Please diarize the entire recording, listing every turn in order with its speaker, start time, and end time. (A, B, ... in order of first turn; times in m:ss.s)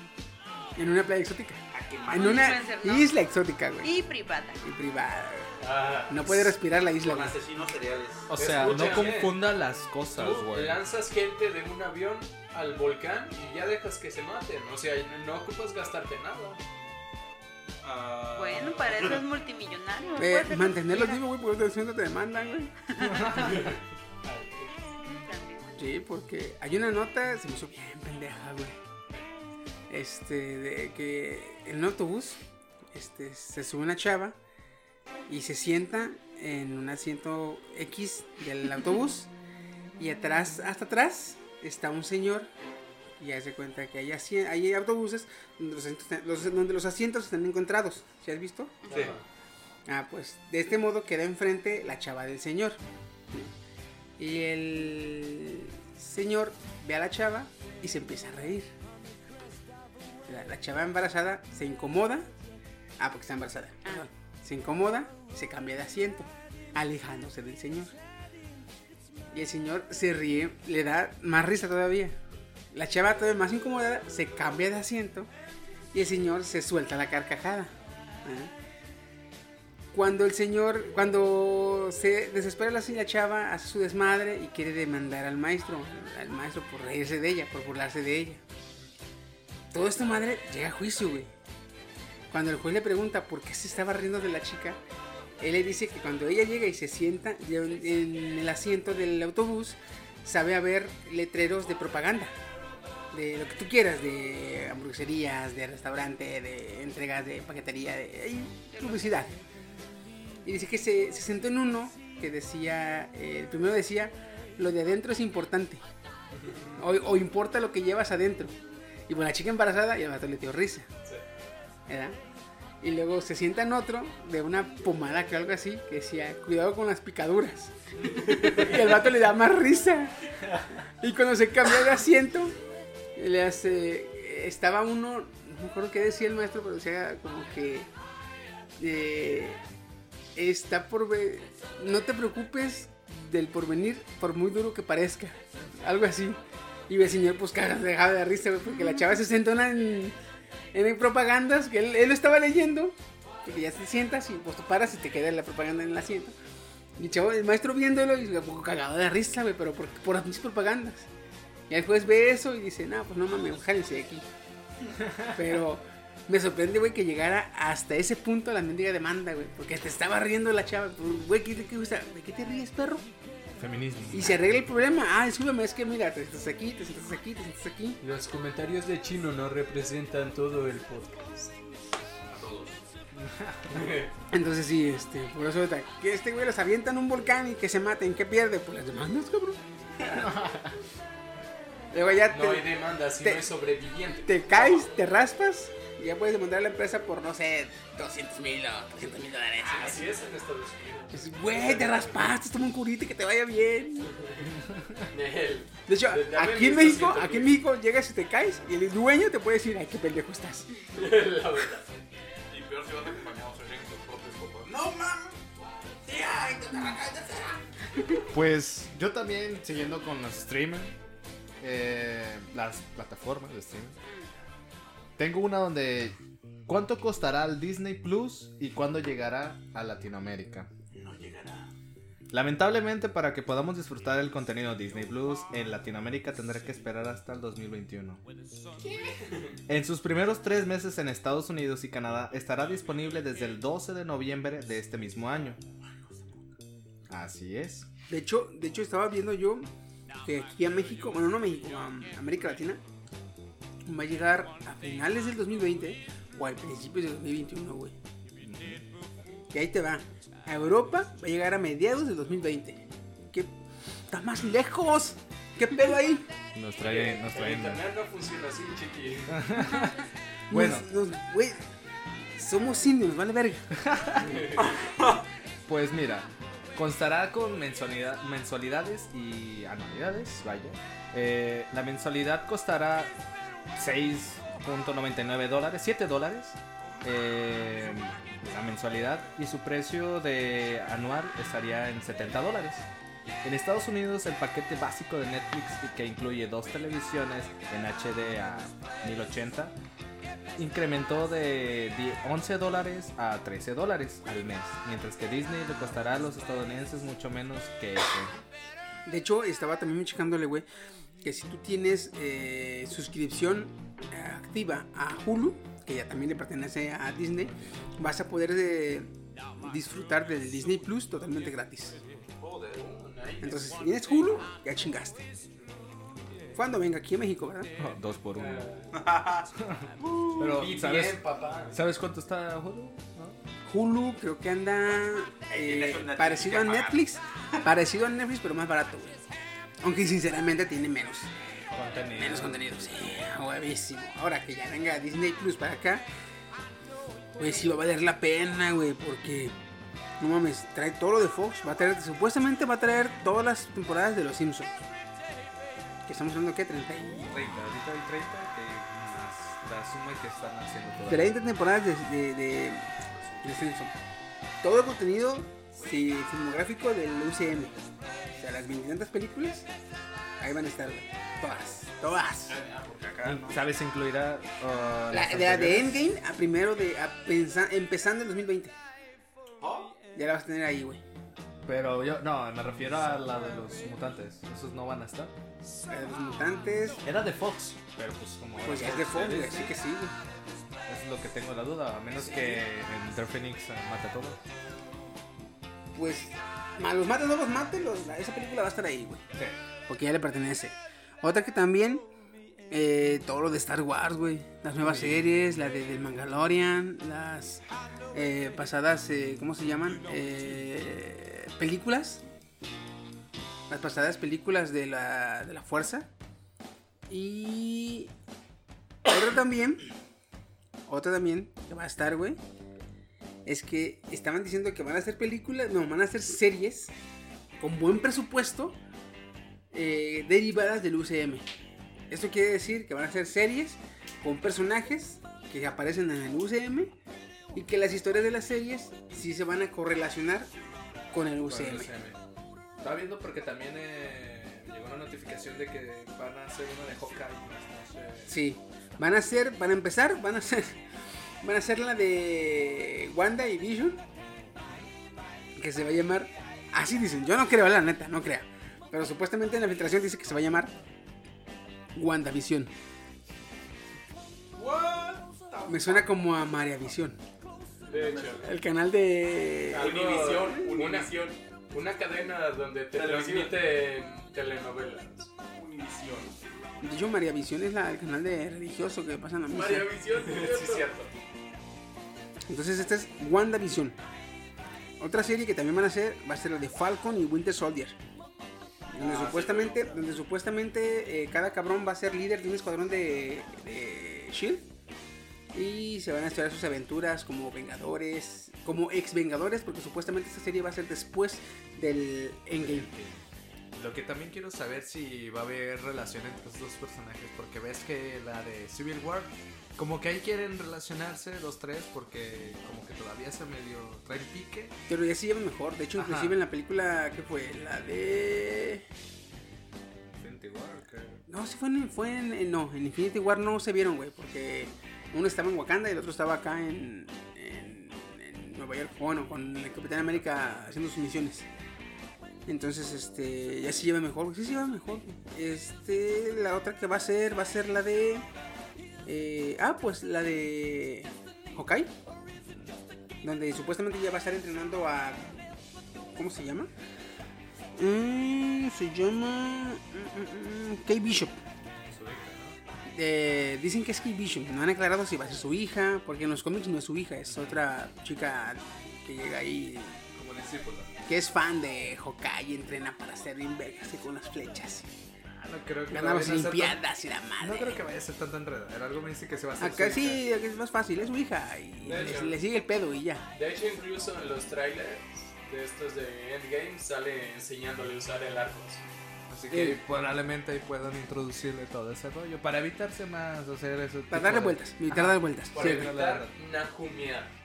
0:00.8-0:03.9 A
0:01.7-0:02.6 B
0:02.1-0:03.1 C
0:03.8-0:04.6 C
0:04.6-0:05.5 A
0:05.6-0:06.2 D
0:06.1-0:07.4 A
0:06.5-0:09.2 B
0:08.3-0:10.8 E
0:08.3-0:09.3 D
0:10.1-0:16.6 D
0:17.8-0:19.2 B
0:18.4-0:21.2 C
0:20.2-0:22.8 A
0:22.9-0:23.6 C
0:23.0-0:23.7 E
0:23.4-0:23.8 D
0:25.0-0:25.9 C
0:25.8-0:28.8 A
0:29.9-0:34.4 A
0:35.3-0:39.3 A
0:40.0-0:42.5 A
0:43.2-0:49.0 A
0:48.8-0:49.1 C
0:48.9-0:49.2 D
0:49.9-0:52.8 A
0:54.2-0:58.7 A
1:00.3-1:02.3 A
1:03.0-1:07.9 A
1:09.3-1:12.2 A
1:12.7-1:15.3 A
1:15.9-1:18.5 A
1:19.9-1:28.4 A
1:29.7-1:31.3 A
1:32.3-1:34.8 A
1:35.4-1:42.4 A
1:43.1-1:49.4 A
1:48.7-1:49.1 C
1:50.4-1:55.8 A
1:56.3-1:56.8 D
1:56.8-1:58.6 A
1:59.1-2:00.9 A
2:01.9-2:02.2 A
2:02.8-2:12.6 A
2:08.0-2:09.0 D
2:13.2-2:17.9 A
2:18.8-2:19.6 A
2:20.4-2:30.2 A
2:30.7-2:36.3 A
2:37.0-2:41.1 A
2:41.7-2:44.3 A
2:45.0-2:45.5 E
2:45.4-2:53.1 A
2:53.6-2:54.4 E
2:54.1-2:58.0 A
2:58.0-3:01.5 D
3:02.3-3:02.8 B
3:03.2-3:03.8 E
3:03.7-3:04.1 D
3:04.3-3:10.3 A
3:10.0-3:10.3 B
3:10.3-3:10.7 E
3:11.9-3:12.7 A
3:12.3-3:14.9 D
3:14.3-3:20.1 A
3:19.6-3:22.2 D
3:21.1-3:24.1 A
3:24.1-3:24.5 D
3:25.1-3:27.6 D
3:25.9-3:30.7 A
3:30.9-3:31.9 D
3:32.5-3:35.4 B
3:36.0-3:37.6 B
3:38.3-3:41.0 E
3:41.6-3:44.0 E
3:45.2-3:46.2 E
3:46.7-3:50.7 E
3:50.9-3:51.7 B
3:52.3-3:58.2 E
3:59.2-3:59.5 D
3:59.7-4:05.6 E
4:07.1-4:07.9 E
4:08.1-4:09.7 A
4:10.2-4:12.8 A
4:13.9-4:18.0 A
4:18.5-4:18.8 E
4:18.5-4:18.8 B
4:19.5-4:23.5 A
4:24.1-4:26.3 A
4:26.5-4:27.8 E
4:26.8-4:29.6 D
4:29.3-4:30.0 E
4:30.5-4:31.6 A
4:30.5-4:30.9 E
4:32.4-4:33.7 A
4:33.8-4:34.3 E
4:34.2-4:34.8 D
4:34.6-4:35.2 B
4:35.7-4:43.1 E
4:43.8-4:52.8 E
4:53.4-4:59.8 E
5:00.6-5:08.3 E
5:09.0-5:10.7 A
5:11.2-5:22.0 A
5:22.2-5:23.0 B
5:22.7-5:24.4 D
5:23.4-5:25.3 A
5:26.5-5:27.8 A
5:27.8-5:28.6 E
5:28.4-5:29.0 D
5:28.9-5:30.5 B
5:29.7-5:31.2 E
5:30.4-5:31.8 D
5:31.7-5:33.4 E
5:33.6-5:39.2 A
5:35.5-5:37.0 B
5:39.8-5:41.3 A
5:41.7-5:42.6 E
5:42.0-5:46.0 A
5:47.4-5:49.5 A
5:50.2-5:54.8 A
5:56.1-5:57.6 A
5:57.3-6:01.4 E
6:01.1-6:04.0 A
6:04.6-6:07.8 A
6:08.4-6:09.7 A
6:10.4-6:12.6 A
6:12.5-6:13.6 B
6:13.2-6:16.1 E
6:15.1-6:18.7 A
6:19.6-6:20.0 B
6:20.1-6:21.0 A
6:21.7-6:25.3 E
6:25.9-6:27.0 A
6:27.0-6:29.8 E
6:28.6-6:30.1 A
6:30.9-6:34.4 E
6:32.2-6:32.6 A
6:36.0-6:39.3 A
6:39.9-6:42.1 A
6:42.7-6:47.6 A
6:44.8-6:45.3 E
6:48.1-6:52.2 A
6:53.7-6:56.1 A
6:57.1-6:58.1 A
6:59.0-6:59.8 A
7:00.9-7:02.4 A
7:03.5-7:06.9 A
7:07.6-7:08.8 A
7:09.7-7:11.5 A
7:12.1-7:16.9 A
7:17.5-7:20.5 A
7:21.1-7:21.9 A
7:21.4-7:22.2 E
7:22.8-7:28.4 E
7:28.3-7:30.8 A
7:31.4-7:34.0 A
7:35.6-7:40.7 A
7:42.0-7:42.7 A
7:44.5-7:46.1 B
7:45.7-7:47.2 A
7:47.9-7:48.5 D
7:47.9-7:48.5 B
7:48.4-7:50.4 A
7:49.7-7:55.3 D
7:49.8-7:51.4 B
7:53.0-7:53.6 B
7:55.4-7:56.4 B
7:56.8-8:00.0 A
7:59.5-8:00.9 B
8:00.2-8:01.1 D
8:02.5-8:04.0 A
8:05.0-8:08.0 A
8:08.9-8:14.7 A
8:09.0-8:09.8 D
8:15.5-8:22.9 A
8:22.6-8:23.2 E
8:23.7-8:34.8 E
8:34.9-8:38.8 A
8:36.0-8:36.4 E
8:40.2-8:41.2 E
8:41.3-8:51.5 A
8:52.5-8:58.2 A
8:59.1-9:01.9 A
9:03.2-9:05.4 A
9:06.2-9:06.7 A
9:07.8-9:11.4 A
9:11.8-9:12.6 E
9:12.9-9:20.0 A
9:17.3-9:17.6 E
9:20.1-9:20.9 E
9:21.1-9:24.9 A
9:25.4-9:26.8 E
9:25.9-9:27.8 A
9:27.4-9:30.2 E
9:29.6-9:33.2 A
9:31.8-9:32.4 D
9:31.9-9:32.2 E
9:33.3-9:38.8 D
9:39.3-9:46.3 E
9:39.5-9:39.8 A
9:44.1-9:45.9 A
9:45.5-9:47.3 D